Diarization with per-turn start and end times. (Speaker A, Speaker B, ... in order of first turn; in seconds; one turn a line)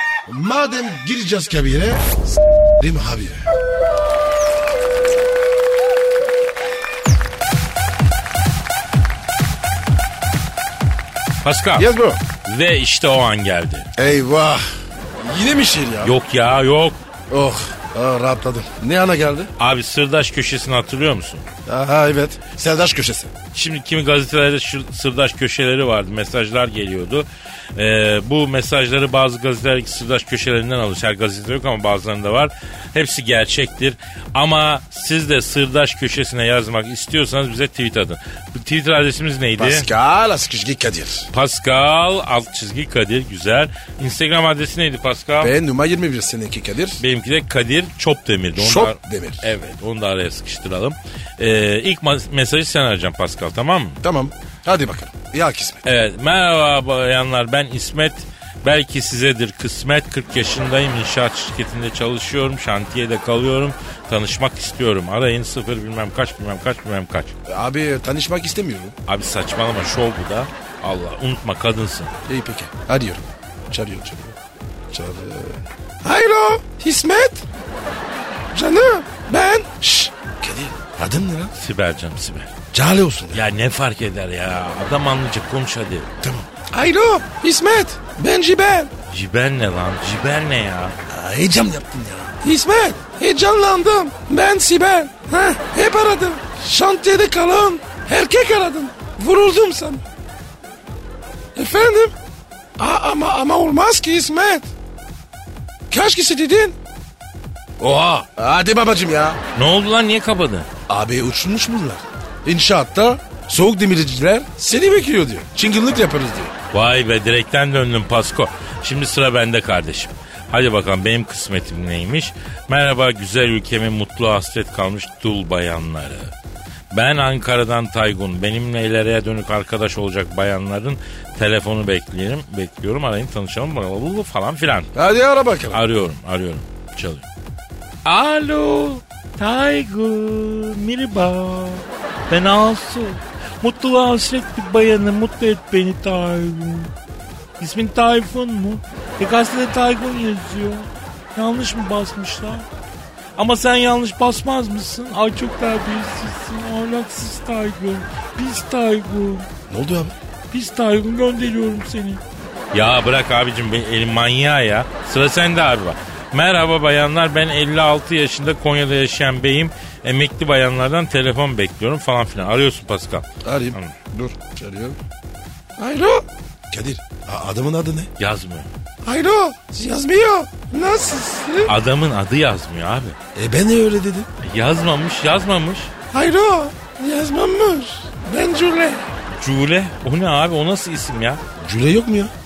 Speaker A: 0.3-2.1
Speaker A: 2.8-3.4
Speaker B: 11.4-11.9
Speaker A: 11.8-12.2
Speaker B: 12.4-13.9
Speaker A: 14.0-14.7
Speaker A: 15.2-16.1
Speaker B: 16.0-17.0
Speaker A: 17.3-19.5
Speaker B: 19.6-21.5
Speaker A: 21.7-23.3
Speaker B: 23.5-39.9
Speaker A: 39.6-41.3
Speaker B: 41.3-45.5
Speaker A: 45.4-47.0
Speaker B: 47.0-54.0
Speaker A: 48.6-49.5
Speaker A: 54.0-55.8
Speaker B: 55.9-67.3
Speaker A: 67.5-69.0
Speaker B: 69.1-72.1
Speaker A: 72.3-74.4
Speaker A: 74.9-77.4
Speaker A: 78.5-81.5
Speaker B: 81.6-82.5
Speaker A: 82.7-83.4
Speaker B: 83.3-86.1
Speaker A: 86.2-88.9
Speaker B: 89.1-91.0
Speaker A: 91.1-100.0
Speaker A: 101.5-102.2
Speaker A: 102.8-104.7
Speaker A: 105.9-106.8
Speaker A: 107.8-109.4
Speaker B: 109.5-110.7
Speaker A: 110.9-116.5
Speaker B: 116.7-126.3
Speaker B: 126.9-134.9
Speaker A: 134.9-135.8
Speaker B: 135.7-137.3
Speaker B: 138.1-146.9
Speaker B: 147.6-152.7
Speaker B: 153.4-159.5
Speaker A: 159.7-160.2
Speaker B: 160.5-174.0
Speaker A: 173.4-175.0
Speaker A: 175.8-178.1
Speaker B: 178.2-178.7
Speaker A: 179.0-181.7
Speaker B: 181.7-183.2
Speaker A: 183.3-184.3
Speaker B: 184.4-185.9
Speaker A: 186.1-189.0
Speaker B: 189.4-191.4
Speaker A: 191.6-192.3